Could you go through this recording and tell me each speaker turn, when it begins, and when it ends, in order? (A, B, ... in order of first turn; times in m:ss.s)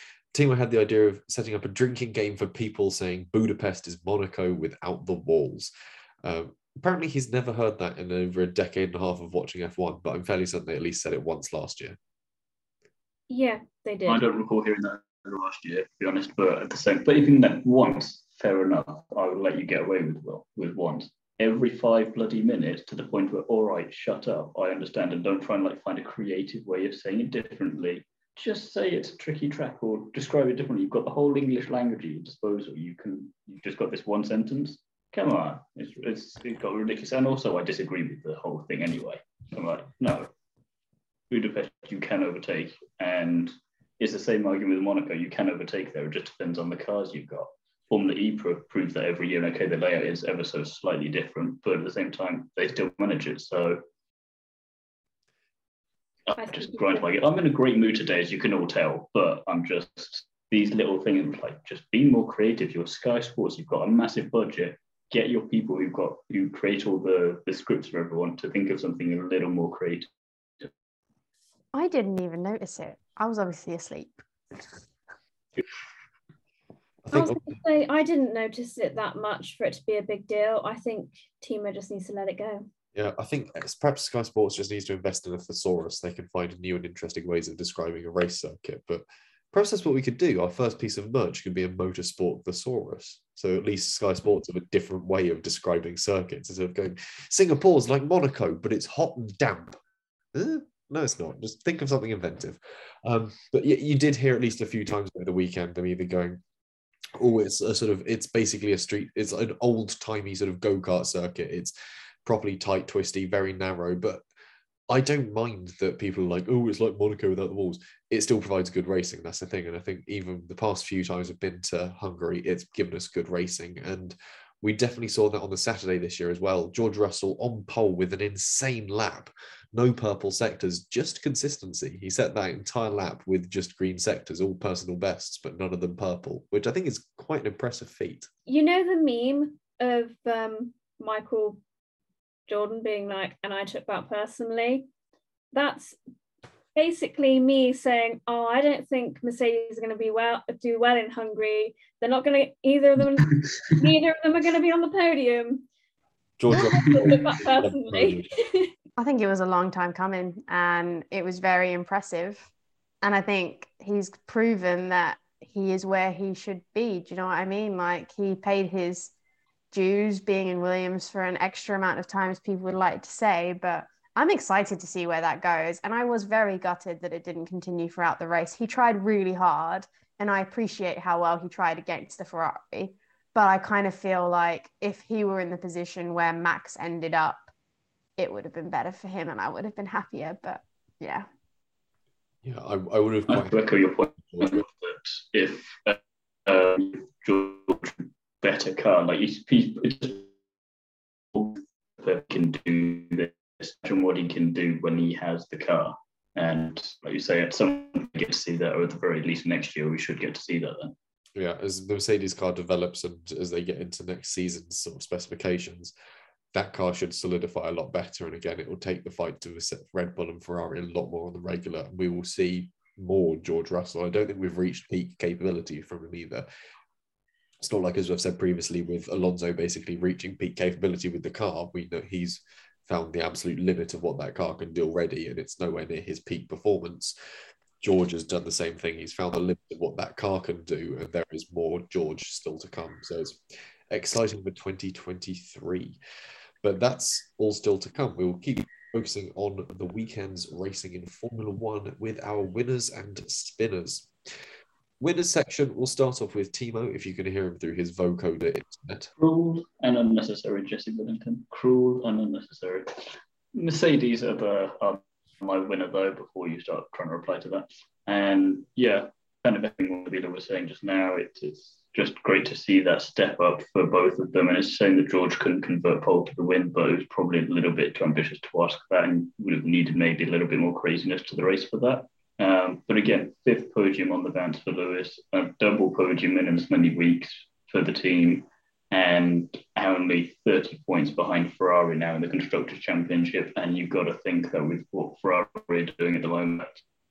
0:00.3-0:05.7 A
0:06.2-0:12.0 A
0:13.3-0:14.2 B
0:14.1-0:40.3 C
0:41.3-0:53.8 C
0:56.3-1:10.1 C
0:56.4-0:57.1 B
1:11.7-1:14.2 D
1:17.0-1:17.6 A
1:17.1-1:22.7 B
1:23.0-1:39.8 A
1:40.3-1:46.4 A
1:47.2-1:51.7 A
1:52.2-1:54.2 A
1:54.9-2:18.3 A
2:18.5-2:21.6 B
2:22.5-2:24.9 B
2:25.5-2:26.0 B
2:26.8-2:35.7 B
2:36.4-2:38.3 A
2:36.7-2:38.7 B
2:39.0-2:42.5 D
2:43.0-2:49.1 D
2:49.7-3:07.5 D
3:08.2-3:11.3 D
3:12.4-3:13.7 A
3:13.3-3:20.3 C
3:14.3-3:14.6 A
3:21.3-3:31.0 C
3:31.4-3:35.9 A
3:36.5-3:46.5 A
3:47.6-3:57.2 A
3:57.8-4:03.4 A
4:03.9-4:06.0 A
4:06.6-4:14.1 A
4:15.0-4:19.1 A
4:19.2-4:56.8 C